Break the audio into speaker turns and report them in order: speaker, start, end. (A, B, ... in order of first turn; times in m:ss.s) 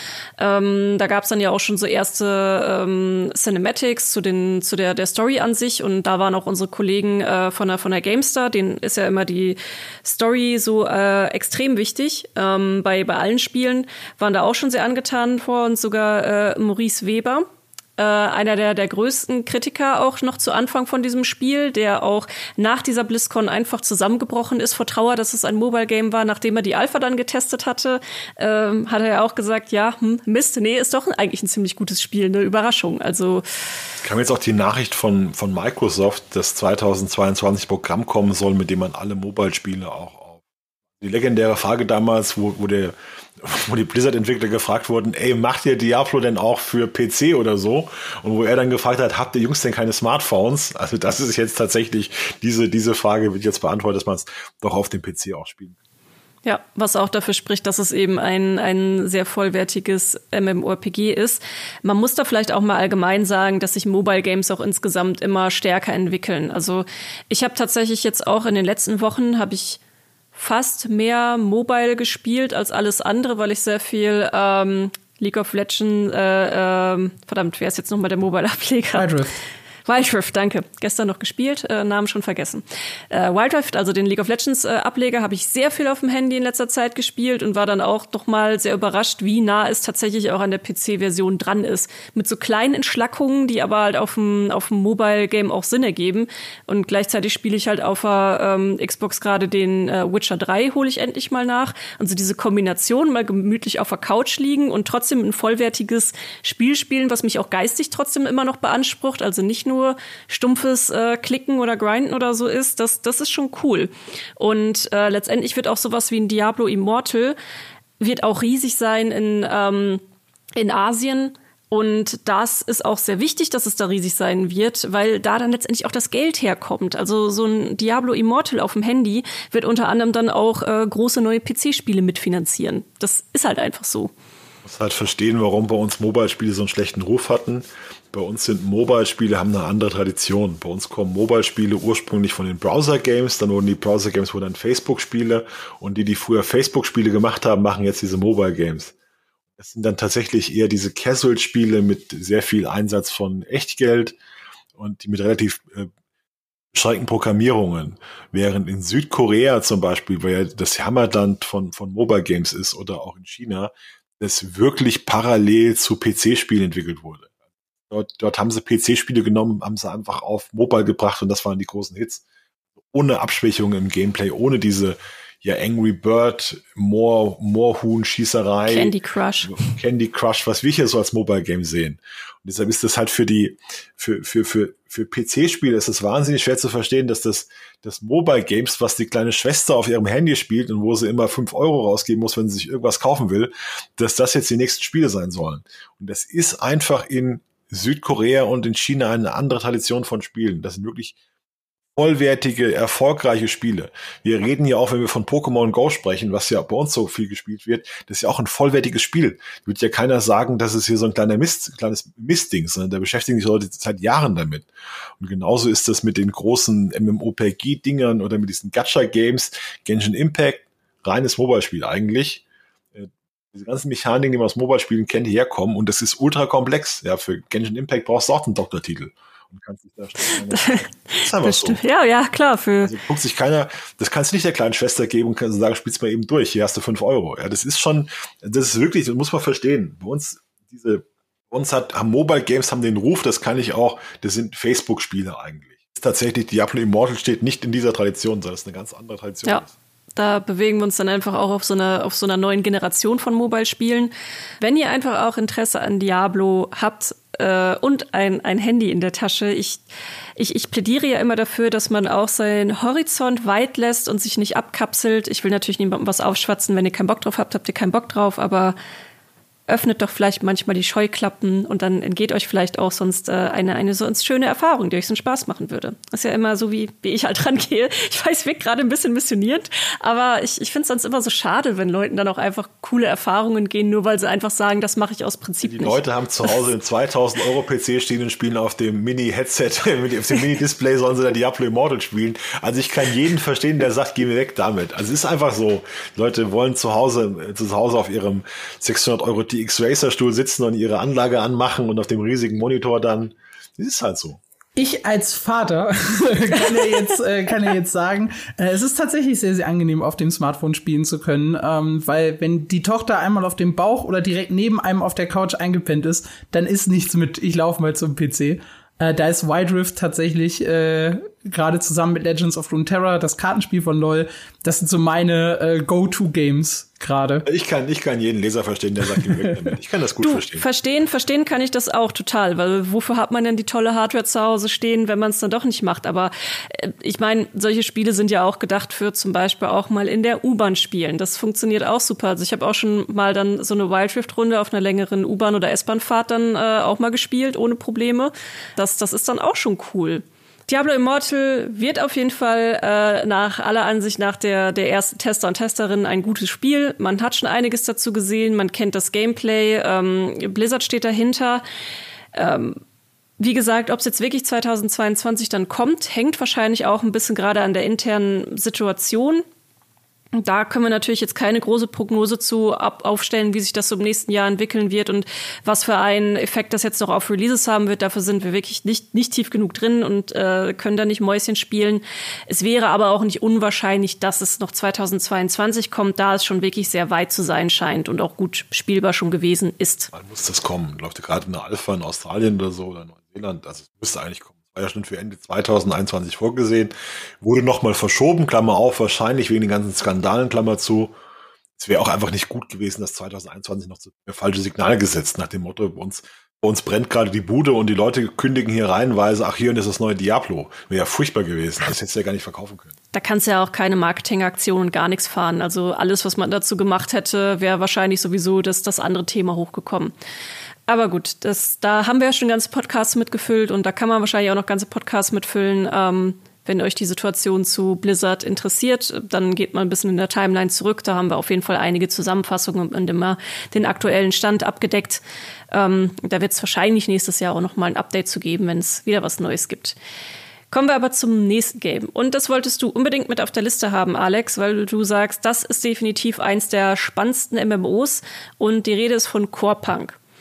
0:00.4-0:17.4 A
0:18.0-0:33.4 A
0:34.0-0:40.4 B
0:41.0-0:55.8 B
0:56.4-1:09.8 A
1:10.4-1:19.1 A
1:18.9-1:19.4 C
1:19.9-1:57.4 A
1:58.0-2:00.0 A
2:00.6-2:14.1 A
2:14.6-2:28.9 B
2:29.6-2:34.2 B
2:34.8-2:35.9 B
2:36.7-2:47.3 B
2:47.9-2:52.2 B
2:52.9-3:21.2 B
2:58.7-2:59.6 A
3:22.0-3:34.7 B
3:35.2-3:42.4 B
3:42.9-3:51.8 B
3:50.3-3:52.9 A
3:52.8-4:09.7 B
4:10.2-4:19.8 A
4:20.4-4:28.8 A
4:29.7-4:46.7 A
4:45.6-5:04.4 B
5:04.8-5:27.4 C
5:27.4-5:30.6 B
5:30.2-6:01.6 A
6:02.3-6:02.8 A
6:03.4-6:09.4 A
6:10.4-6:30.1 A
6:30.1-6:41.2 B
6:41.8-6:52.9 B
6:53.1-7:00.1 A
7:00.9-7:20.0 A
7:20.7-7:30.2 A